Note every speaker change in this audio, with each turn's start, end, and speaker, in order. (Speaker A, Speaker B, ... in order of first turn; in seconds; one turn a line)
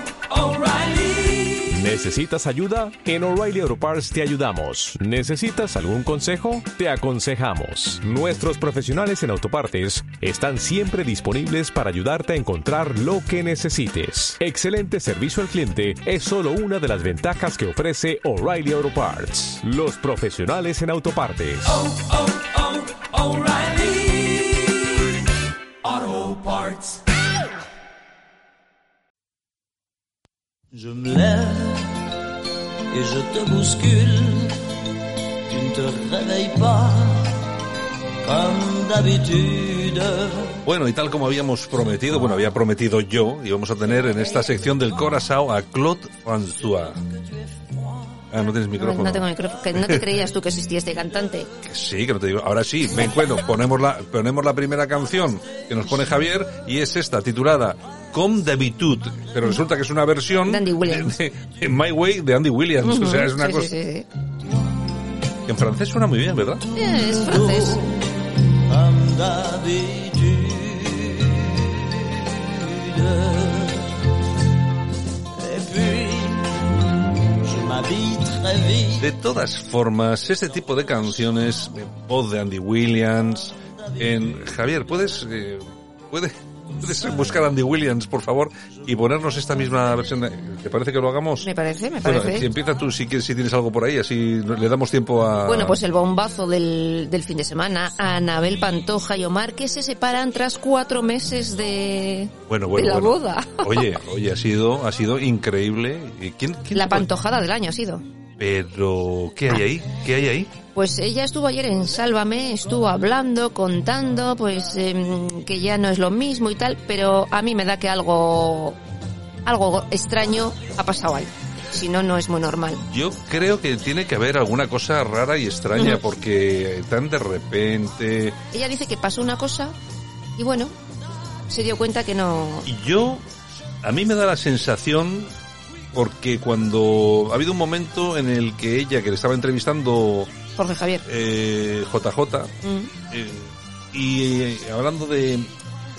Speaker A: 0.3-1.9
Speaker B: 1.7-21.7
Speaker A: 9.9-10.2
Speaker A: 14.2-14.6
Speaker A: 21.4-24.9
Speaker A: 25.9-27.0
Speaker C: 30.9-31.7
Speaker C: 33.5-34.2
Speaker C: 36.2-36.8
Speaker C: 38.9-39.8
Speaker D: 40.6-47.0
Speaker D: 48.3-49.3
Speaker E: 48.8-51.5
Speaker D: 49.8-50.0
Speaker D: 51.6-63.7
Speaker E: 60.5-61.2
Speaker E: 62.8-64.1
Speaker D: 65.5-66.6
Speaker E: 66.7-67.9
Speaker D: 79.0-91.5
Speaker E: 91.4-92.5
Speaker D: 92.0-95.8
Speaker E: 95.5-103.9
Speaker D: 102.5-107.1
Speaker E: 106.8-108.0
Speaker D: 108.4-110.5
Speaker E: 110.7-118.8
Speaker E: 119.5-122.8
Speaker D: 122.9-128.4
Speaker E: 128.5-129.8
Speaker E: 130.4-130.7
Speaker E: 131.5-132.7
Speaker D: 132.7-133.2
Speaker D: 133.8-135.3
Speaker D: 135.9-140.3
Speaker E: 140.6-141.0
Speaker D: 141.1-142.5
Speaker E: 142.6-142.9
Speaker D: 143.1-145.5